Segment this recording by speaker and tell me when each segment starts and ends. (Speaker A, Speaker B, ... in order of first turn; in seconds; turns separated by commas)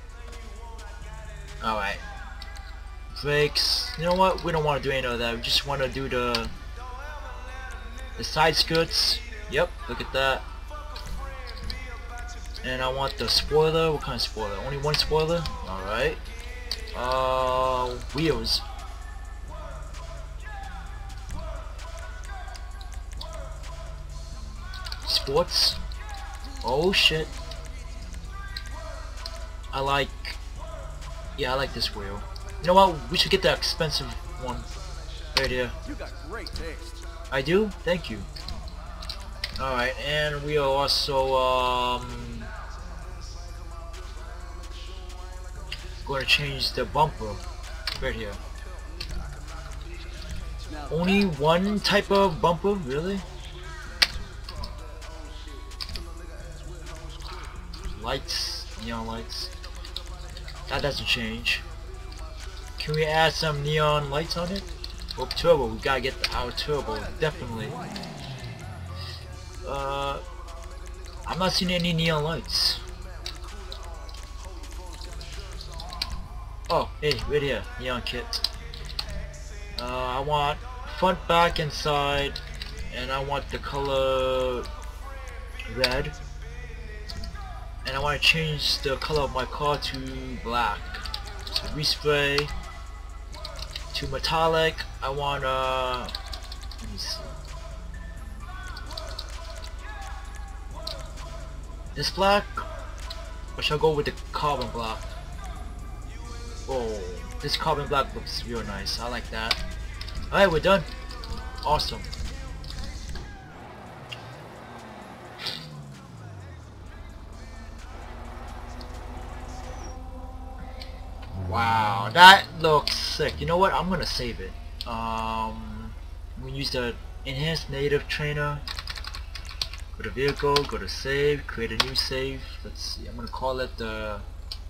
Speaker A: 0.3-1.5, Speaker B: 1.6-2.0, Speaker B: 3.1-6.5, Speaker B: 8.2-10.4, Speaker A: 11.0-12.3, Speaker B: 12.6-16.2, Speaker B: 16.9-18.6, Speaker B: 25.0-25.8, Speaker B: 26.6-27.3, Speaker B: 29.7-30.4, Speaker B: 31.4-34.7, Speaker B: 35.3-35.7, Speaker A: 35.8-37.0, Speaker B: 37.3-38.3, Speaker B: 39.6-42.5, Speaker B: 46.0-47.4, Speaker B: 48.0-48.4, Speaker A: 48.7-49.3, Speaker A: 50.6-51.4, Speaker B: 50.9-53.2, Speaker A: 54.6-57.6, Speaker B: 57.9-59.5, Speaker B: 60.7-61.6, Speaker B: 62.8-67.8, Speaker A: 67.0-67.9, Speaker B: 69.6-70.2, Speaker B: 71.2-72.8, Speaker A: 73.1-76.0, Speaker B: 76.7-78.4, Speaker B: 79.8-82.4, Speaker B: 82.9-84.7, Speaker B: 85.7-86.1, Speaker B: 87.8-92.5, Speaker B: 93.9-96.1, Speaker B: 96.8-97.3, Speaker B: 102.0-102.7, Speaker B: 103.5-105.0, Speaker B: 106.7-109.6, Speaker B: 110.3-110.9, Speaker B: 111.6-112.1, Speaker B: 121.5-128.6, Speaker B: 130.0-134.2